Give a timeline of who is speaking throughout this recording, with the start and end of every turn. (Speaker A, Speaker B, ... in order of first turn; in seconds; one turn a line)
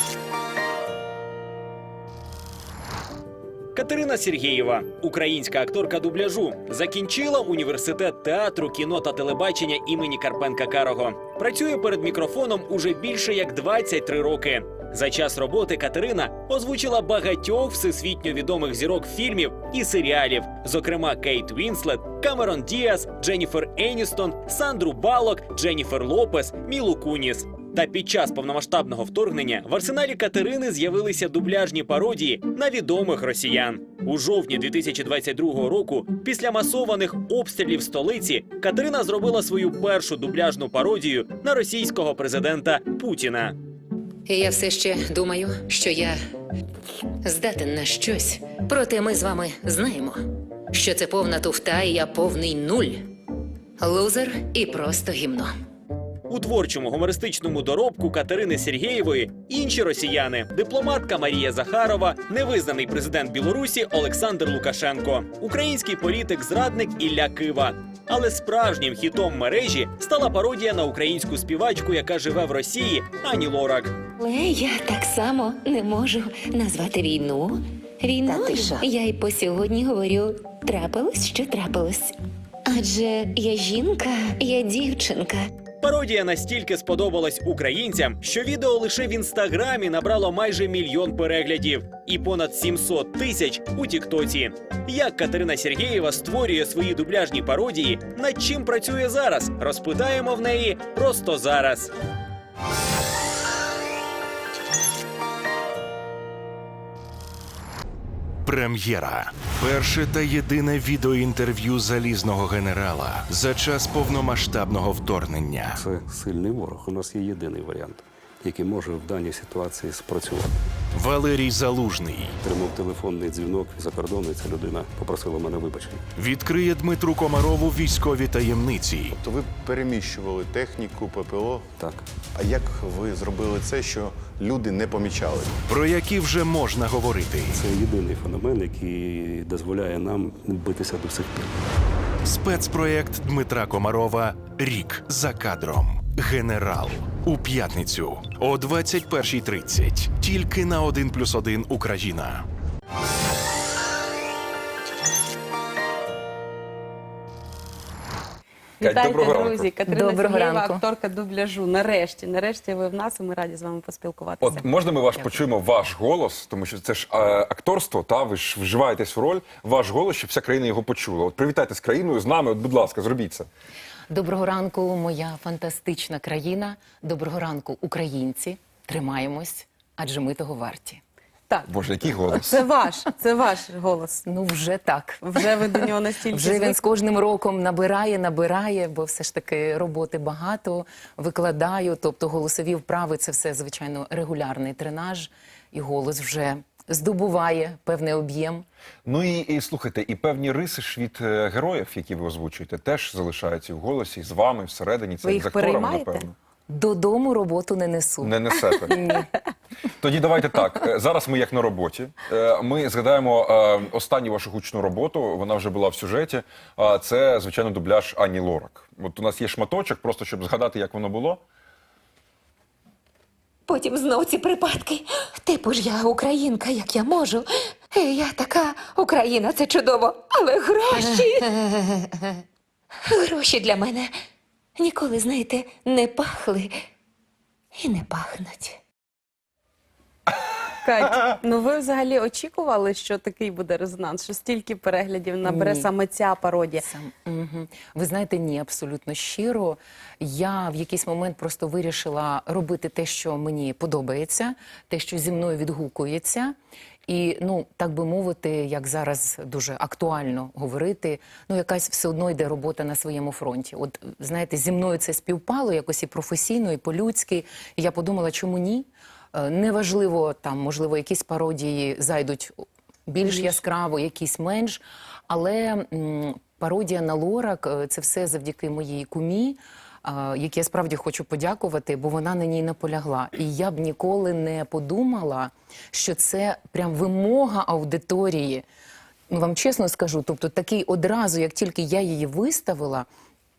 Speaker A: 3.8-43.5
Speaker B: 44.2-46.1
Speaker B: 47.2-50.2
Speaker B: 50.7-53.0
Speaker B: 53.8-55.5
Speaker A: 56.3-74.0
Speaker C: 74.2-82.1
Speaker C: 82.7-85.5
Speaker A: 85.8-101.9
Speaker D: 108.4-115.8
Speaker E: 115.8-120.6
Speaker D: 120.9-122.4
Speaker E: 122.4-126.0
Speaker D: 126.2-129.2
Speaker F: 129.2-131.7
Speaker E: 131.8-132.0
Speaker F: 132.3-135.5
Speaker D: 135.7-137.6
Speaker E: 137.5-141.5
Speaker D: 142.2-152.4
Speaker G: 158.8-164.7
Speaker H: 158.8-159.7
Speaker B: 159.8-160.8
Speaker H: 164.4-173.5
Speaker B: 165.1-165.4
Speaker B: 174.1-181.0
Speaker G: 181.5-184.2
Speaker H: 181.7-182.6
Speaker B: 184.2-185.8
Speaker G: 185.2-186.9
Speaker B: 186.3-198.7
Speaker H: 199.0-206.3
Speaker G: 205.2-206.3
Speaker B: 206.7-209.2
Speaker H: 208.2-208.9
Speaker H: 210.0-221.4
Speaker C: 223.7-231.9
Speaker C: 233.1-234.1
Speaker C: 234.8-236.7
Speaker C: 237.7-238.8
Speaker G: 240.8-246.9
Speaker B: 245.4-245.9
Speaker B: 246.8-256.5
Speaker B: 257.1-272.5
Speaker B: 273.1-288.6
Speaker G: 273.2-273.6
Speaker B: 289.3-293.1